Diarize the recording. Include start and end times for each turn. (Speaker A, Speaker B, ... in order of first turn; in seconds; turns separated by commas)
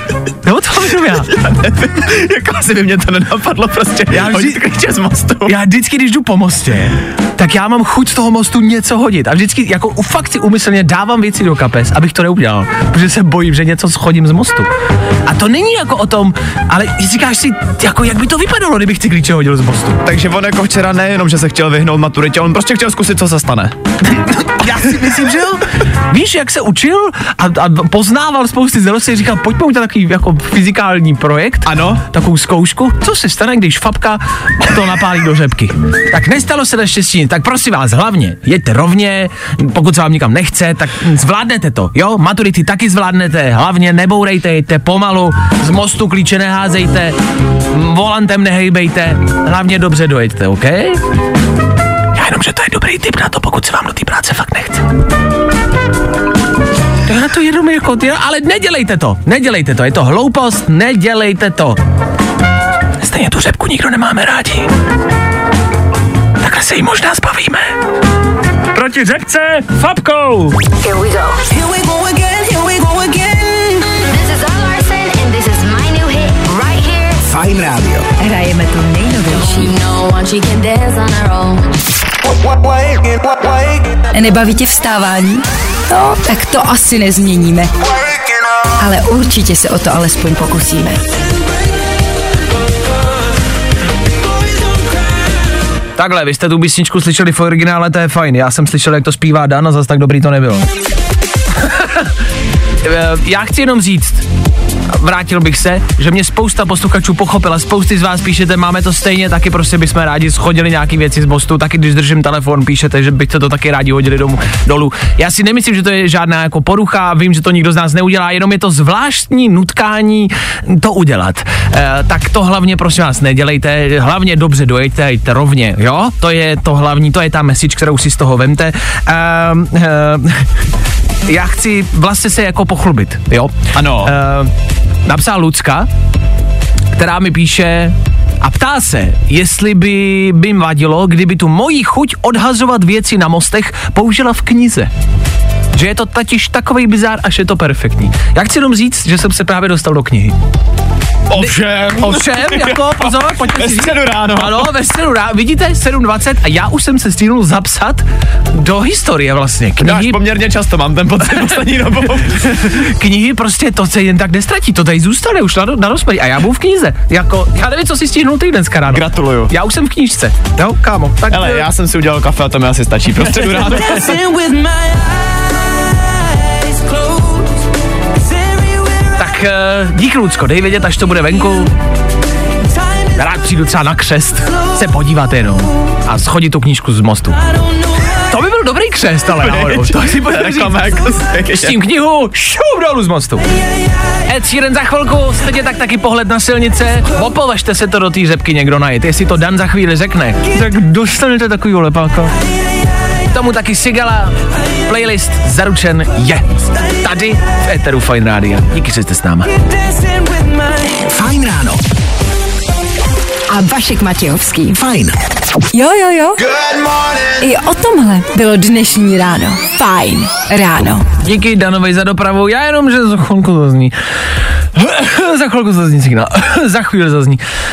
Speaker A: 0.4-1.3, Speaker B: 1.2-5.6, Speaker A: 4.1-4.6, Speaker A: 5.5-14.7, Speaker A: 15.3-20.0, Speaker B: 20.0-23.7, Speaker A: 24.1-47.2, Speaker B: 31.6-32.0, Speaker A: 47.7-51.0, Speaker A: 52.1-54.8, Speaker A: 57.1-61.8, Speaker A: 63.0-64.7, Speaker A: 66.4-67.7, Speaker A: 68.9-70.5, Speaker C: 70.8-77.2, Speaker D: 77.2-78.1, Speaker E: 78.2-79.8, Speaker C: 79.5-81.8, Speaker E: 84.1-87.7, Speaker E: 88.8-91.1, Speaker A: 96.0-100.7, Speaker A: 101.6-102.1, Speaker A: 102.8-104.2, Speaker A: 104.9-130.5, Speaker A: 131.3-134.5, Speaker B: 133.7-134.2, Speaker A: 135.1-135.9, Speaker A: 137.0-144.9, Speaker A: 145.7-150.4, Speaker B: 151.3-154.7, Speaker A: 151.4-160.2, Speaker B: 159.8-162.5, Speaker A: 161.3-161.7, Speaker A: 162.2-171.7, Speaker B: 168.9-169.5, Speaker B: 171.3-174.1, Speaker A: 173.3-174.2, Speaker C: 174.2-175.0, Speaker C: 176.9-177.2, Speaker A: 179.2-181.7, Speaker A: 183.2-187.4, Speaker A: 188.1-193.4, Speaker B: 189.4-191.8, Speaker A: 194.3-202.4, Speaker A: 203.3-209.5, Speaker D: 210.9-211.8, Speaker E: 213.5-214.8, Speaker D: 214.7-215.2, Speaker E: 215.7-216.4, Speaker D: 216.7-217.1, Speaker E: 217.4-221.1, Speaker A: 221.2-223.9, Speaker A: 224.8-227.4